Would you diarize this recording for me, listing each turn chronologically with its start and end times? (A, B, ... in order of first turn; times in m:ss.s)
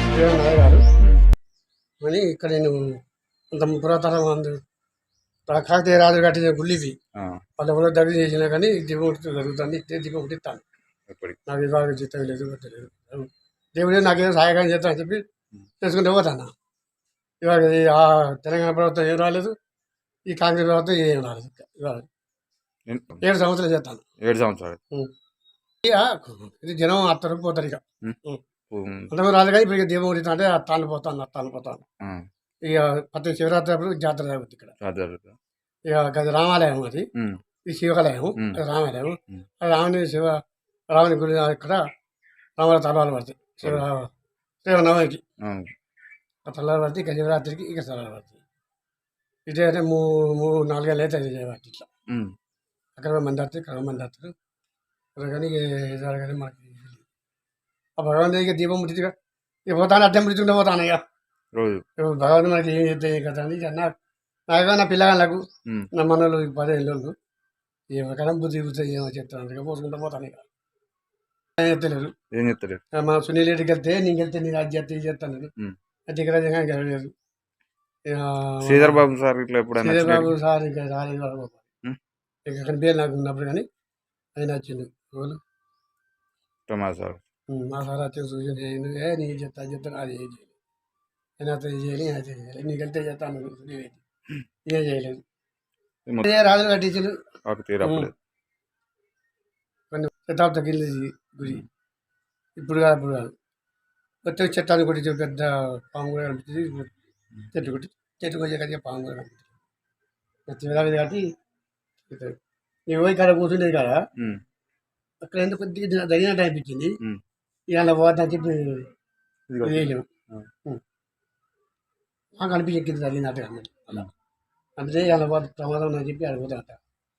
0:00.1-0:00.8 A
0:01.0-0:01.2 B
0:02.0-0:03.0 A
0:03.5-0:04.6 A
0:05.5-0:07.0 A
0:07.2-0:07.4 B
0:07.6-0:10.6 A
0:11.1-0:11.4 B
0:11.4-0:15.2 A
0:15.8-0:16.5 A
0:17.4-0:19.6 A
0:20.3-0:22.1 A
0:22.9-0:23.2 B
0:23.2-0:24.0 A
0:24.2-0:24.8 B
0:25.8-0:28.4 A
0:28.7-0:29.1 B
0:29.1-0:31.8 A
0:32.6-0:34.7 A
0:34.8-0:35.4 B
0:35.9-0:37.1 A
0:37.1-0:37.4 B
0:37.6-0:41.9 A
0:42.6-0:44.1 A
0:44.6-0:45.2 A
0:45.4-0:45.7 B
0:46.4-0:48.4 A
0:49.5-0:51.9 A
0:52.1-0:52.3 B
0:53.0-0:54.3 A
0:55.2-0:57.0 A
0:58.0-0:59.1 A
0:59.7-1:01.0 A
1:01.5-1:01.8 B
1:02.0-1:03.9 A
1:04.5-1:07.1 A
1:07.9-1:10.4 A
1:11.6-1:12.1 A
1:12.3-1:12.8 B
1:12.9-1:15.5 A
1:16.1-1:17.1 A
1:18.1-1:19.0 A
1:18.6-1:20.4 B
1:19.8-1:21.6 A
1:22.4-1:23.7 A
1:24.4-1:25.4 A
1:26.7-1:27.2 B
1:27.5-1:30.5 A
1:31.4-1:34.0 A
1:34.6-1:35.2 A
1:36.2-1:37.2 A
1:37.4-1:38.1 B
1:37.8-1:38.1 A
1:39.9-1:41.6 A
1:42.6-1:43.3 A
1:44.2-1:46.9 A
1:47.5-1:49.5 A
1:50.5-1:51.3 A
1:52.1-1:52.4 A
1:52.9-1:54.0 A
1:54.2-1:54.4 B
1:55.2-1:57.0 A
1:57.7-1:58.9 A
1:59.5-2:00.5 B
1:59.6-2:00.1 A
2:02.4-2:04.1 A
2:04.8-2:06.8 A